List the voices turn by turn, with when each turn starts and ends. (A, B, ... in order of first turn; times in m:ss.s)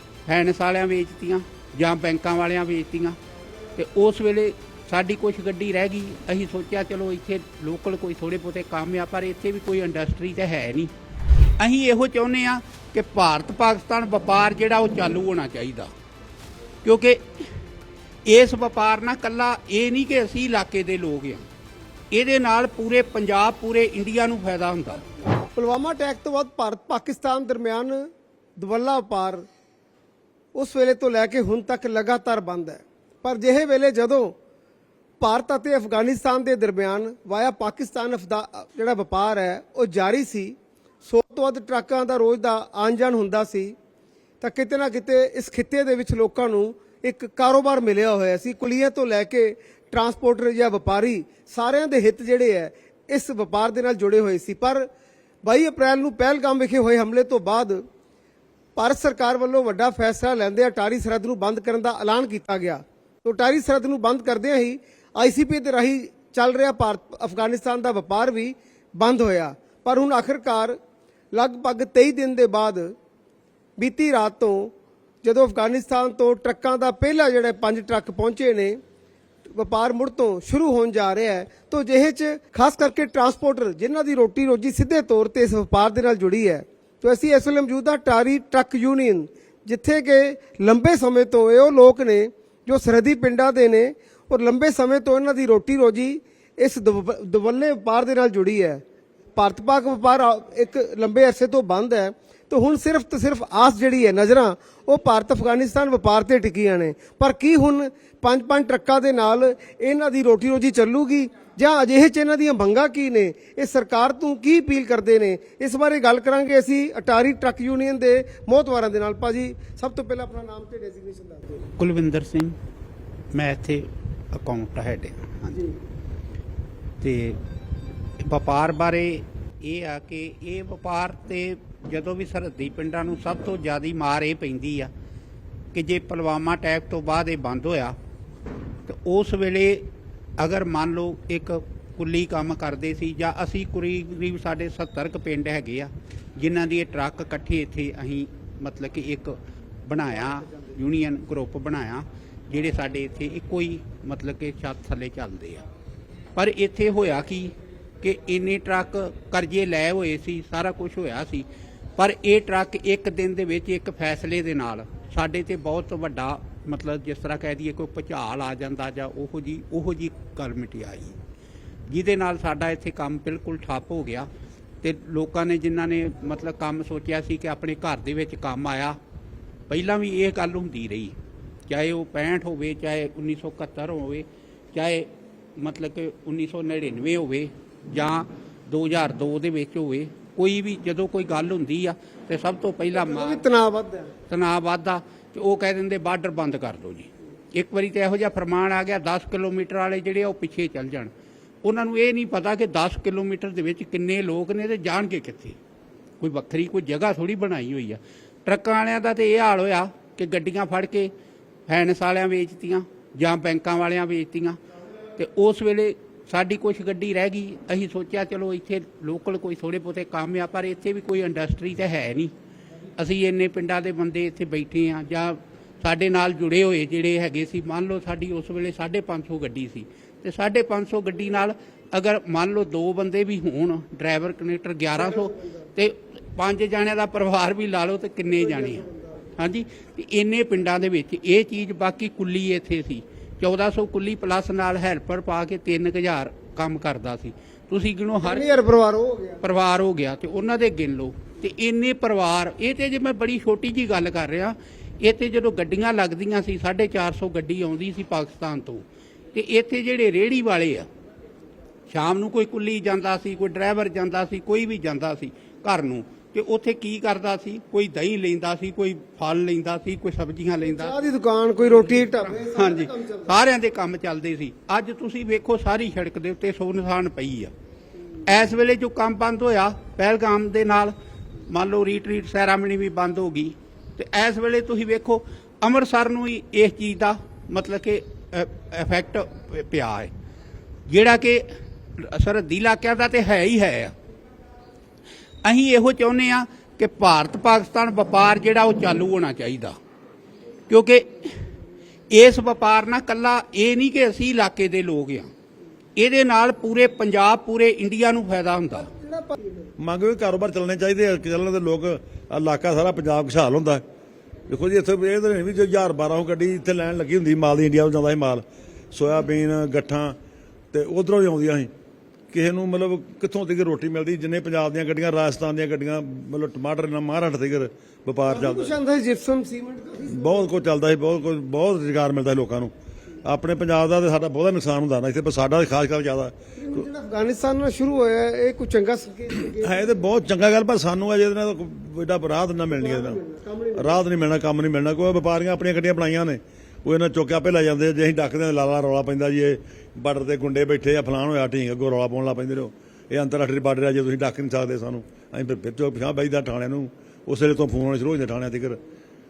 0:00.2-0:03.2 A
0:03.8-0:10.9 A
0:11.6-0:15.9 A
0:16.8-0:17.2 A
0:18.2-0:21.4 A
0:22.1-0:25.0 A
0:25.6-0:29.5 B
0:30.5-0:34.4 B
0:35.2-0:43.8 B
0:44.4-0:54.9 B
0:55.4-0:57.8 B
0:58.8-1:10.8 B
1:11.3-1:13.0 B
1:13.8-1:18.8 B
1:19.5-1:38.8 B
1:39.4-2:01.7 B
2:01.8-2:02.6 A
2:03.3-2:05.6 A
2:05.5-2:05.8 B
2:07.0-2:07.4 A
2:08.2-2:14.9 A
2:15.7-2:18.0 A
2:18.9-2:35.6 A
2:36.4-2:41.4 A
2:42.0-2:51.2 A
2:51.9-2:54.3 A
2:54.8-2:59.0 A
2:59.7-3:01.2 A
3:01.7-3:13.4 A
3:12.9-3:14.1 B
3:14.3-3:21.1 A
3:21.6-3:25.6 A
3:26.2-3:31.1 A
3:31.7-3:34.6 A
3:35.2-3:42.3 A
3:43.0-3:58.8 A
3:55.0-3:55.7 B
3:58.3-3:59.2 B
3:59.4-4:08.6 A
4:08.2-4:09.4 B
4:09.4-4:20.9 A
4:21.9-4:31.0 A
4:30.6-4:33.4 B
4:32.1-4:37.5 A
4:38.2-4:40.9 A
4:41.5-4:50.1 A
4:50.9-4:53.9 A
4:55.4-4:59.8 A
5:00.7-5:01.5 A
5:02.1-5:05.3 A
5:06.0-5:08.9 A
5:08.8-5:09.7 B
5:09.8-5:13.8 C
5:14.5-5:20.2 C
5:20.7-5:21.7 C
5:22.3-5:28.7 C
5:28.3-5:30.6 B
5:30.1-5:32.7 C
5:33.2-5:36.9 C
5:36.6-5:40.0 B
5:39.6-5:43.2 C
5:42.7-5:44.0 B
5:43.8-5:58.8 C